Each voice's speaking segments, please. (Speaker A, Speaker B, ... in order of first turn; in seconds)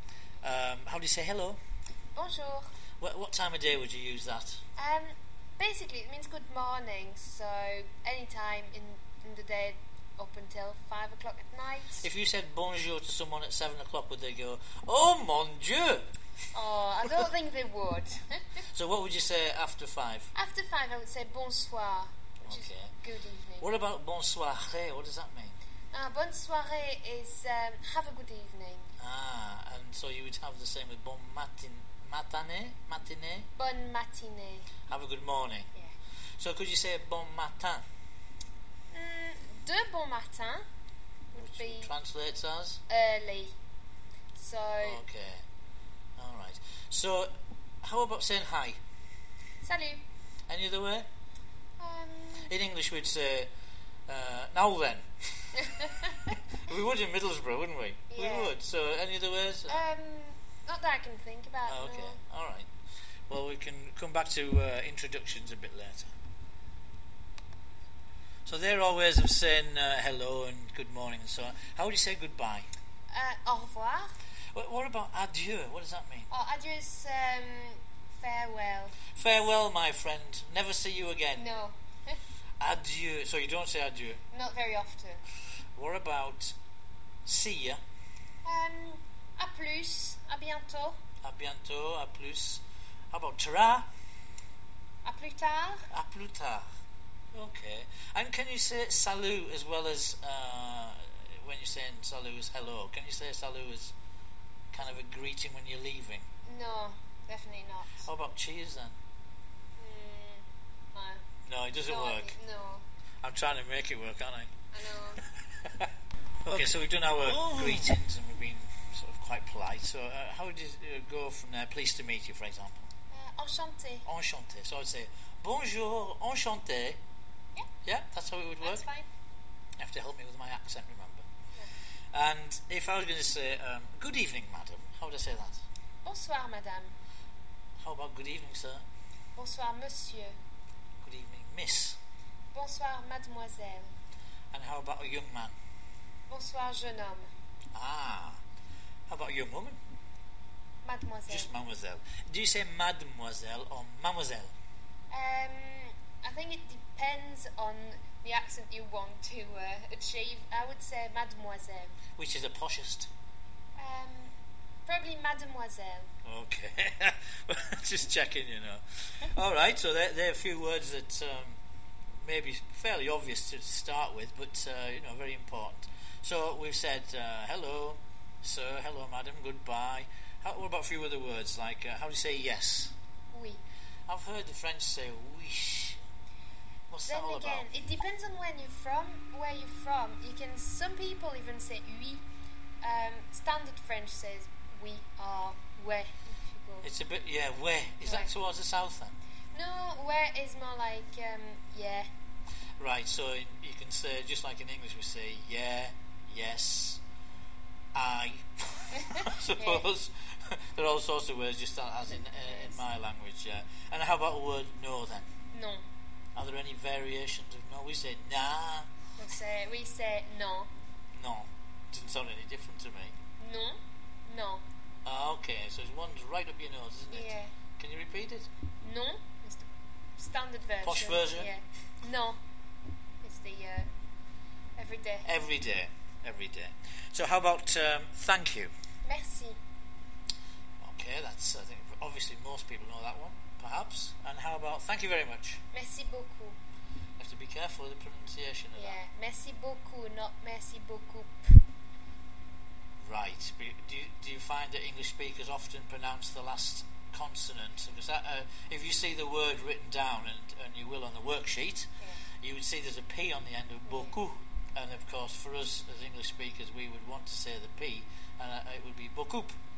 Speaker A: 0.4-1.6, 3.0-4.6, 12.0-16.1, 18.7-20.3, 22.4-22.9, 23.6-25.6, 29.0-33.5, 34.9-35.7, 36.4-37.8, 41.4-42.8, 44.8-45.4, 46.2-48.8, 50.5-51.1, 52.4-53.5, 54.1-59.8, 61.6-62.7, 63.3-66.1, 68.5-72.7, 74.5-76.3, 79.1-81.5, 82.6-84.2, 85.8-86.5, 87.2-87.8, 91.2-93.9, 95.9-96.7, 97.3-103.9, 104.7-106.2, 108.0-109.0, 111.5-112.3, 113.2-114.5, 116.4-122.9, 124.0-127.0, 127.8-128.8, 129.8-131.2, 132.1-135.6, 137.8-138.8, 141.0-142.0, 144.5-145.5, 147.7-148.4, 149.1-149.8, 151.3-154.5, 162.2-163.1, 166.2-171.6, 172.2-182.9, 184.1-186.0, 186.9-187.7, 196.8-199.1, 202.8-207.0, 207.9-215.3, 216.3-218.9, 221.1-223.1, 225.0-228.5, 230.8-231.5, 235.2-238.7, 240.8-245.6, 247.2-249.0, 253.0-261.9, 262.4-269.6
Speaker B: 2.1-2.7, 4.8-12.0, 16.5-18.4, 20.3-23.7, 25.9-28.9, 33.6-34.7, 38.9-40.6, 41.3-41.9, 42.9-43.5, 44.4-45.0, 49.6-50.0, 51.8-52.5, 58.1-58.5, 59.7-62.2, 73.1-74.1, 76.3-79.0, 81.3-82.2, 84.3-85.2, 88.4-91.0, 95.0-95.8, 106.5-108.0, 109.8-111.2, 111.9-112.8, 114.7-115.2, 123.1-124.0, 128.6-129.1, 136.0-136.9, 139.3-140.3, 142.5-143.9, 146.3-147.3, 150.8-151.5, 155.1-161.9, 163.8-164.3, 164.9-166.1, 183.3-183.6, 187.1-192.2, 192.8-196.9, 198.1-198.3, 199.5-202.1, 209.0-209.8, 212.1-212.8, 215.5-215.8, 219.2-220.7, 223.4-224.6, 227.1-227.5, 228.8-229.7, 230.2-232.4, 233.2-233.9, 234.8-235.2, 239.0-239.6, 245.7-246.6, 248.7-251.6, 263.9-264.2